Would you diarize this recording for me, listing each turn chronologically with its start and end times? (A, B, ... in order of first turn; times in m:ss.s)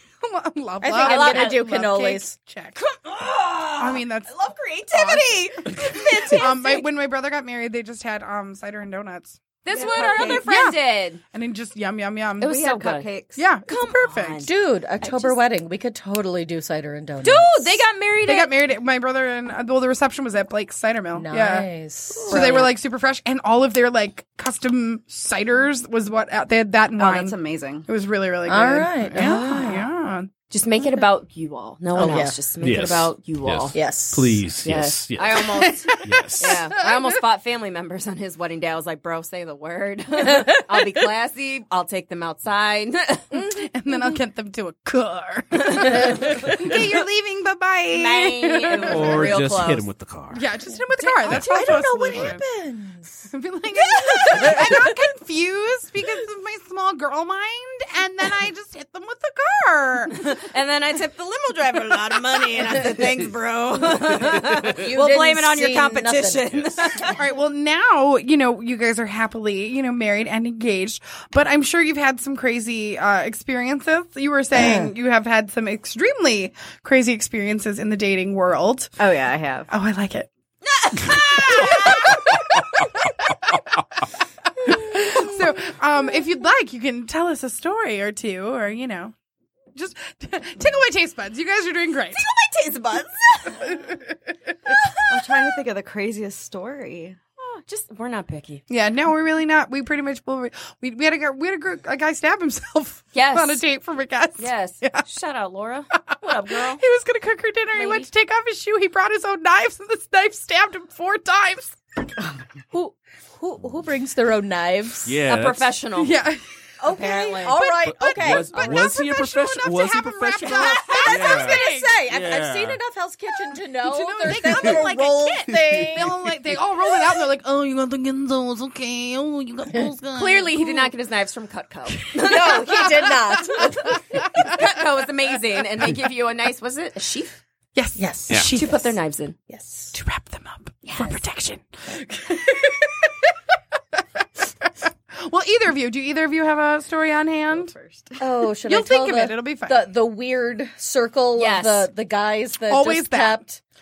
0:00.2-0:02.8 A
0:00.8-0:02.3 B
0:01.0-0:01.6 C
0:02.8-0:06.9 C
0:03.8-0:04.3 A
0:04.9-0:12.6 A
0:09.6-0:11.2 C
0:09.7-0:10.5 D
0:12.4-0:13.1 C
0:12.4-0:13.4 D
0:13.4-0:14.4 A
0:13.7-0:15.4 C
0:14.4-0:17.8 B
0:17.2-0:18.5 C
0:18.2-0:21.7 A
0:21.2-0:22.7 B
0:22.2-0:22.7 C
0:22.3-0:30.3 A
0:27.0-0:27.9 D
0:28.5-0:29.9 B
0:29.2-0:29.6 C
0:30.5-0:33.8 C
0:32.0-0:32.4 B
0:32.6-0:36.7 E
0:33.7-0:34.5 B
0:34.6-0:43.4 C
0:35.6-0:37.1 A
0:43.4-0:49.3 A
0:45.6-0:46.7 C
0:47.9-0:49.9 C
0:48.8-0:50.5 E
0:50.3-0:52.4 A
0:51.0-0:53.3 B
0:53.3-1:00.2 A
0:53.9-0:54.9 B
1:00.1-1:07.2 C
1:04.6-1:07.1 B
1:07.2-1:19.0 A
1:14.5-1:14.9 B
1:19.0-1:19.7 D
1:19.7-1:20.3 A
1:20.6-1:22.3 C
1:21.4-1:22.2 A
1:24.9-1:29.1 A
1:29.8-1:32.2 A
1:32.1-1:33.9 C
1:33.7-1:34.0 A
1:35.0-1:37.2 D
1:37.4-1:38.6 C
1:38.7-1:45.0 A
1:43.1-1:43.6 C
1:44.4-1:46.8 C
1:46.0-1:51.8 A
1:47.7-1:48.1 C
1:52.7-1:55.2 B
1:55.0-1:55.7 E
1:55.3-1:56.2 C
1:56.0-1:56.4 A
1:56.8-1:59.1 B
1:56.8-1:57.7 C
1:57.8-2:02.8 E
1:58.5-1:58.9 C
1:58.6-2:02.0 A
2:00.4-2:06.2 B
2:03.8-2:10.9 A
2:10.1-2:17.4 C
2:12.0-2:12.8 A
2:12.2-2:14.0 B
2:13.6-2:13.9 A
2:17.8-2:19.0 A
2:18.0-2:18.4 B
2:18.5-2:19.4 C
2:19.5-2:19.9 B
2:19.9-2:22.9 A
2:20.8-2:21.2 C
2:25.1-2:27.7 A
2:27.5-2:28.2 D
2:28.2-2:33.6 B
2:28.6-2:29.9 A
2:31.4-2:31.9 C
2:32.7-2:33.4 A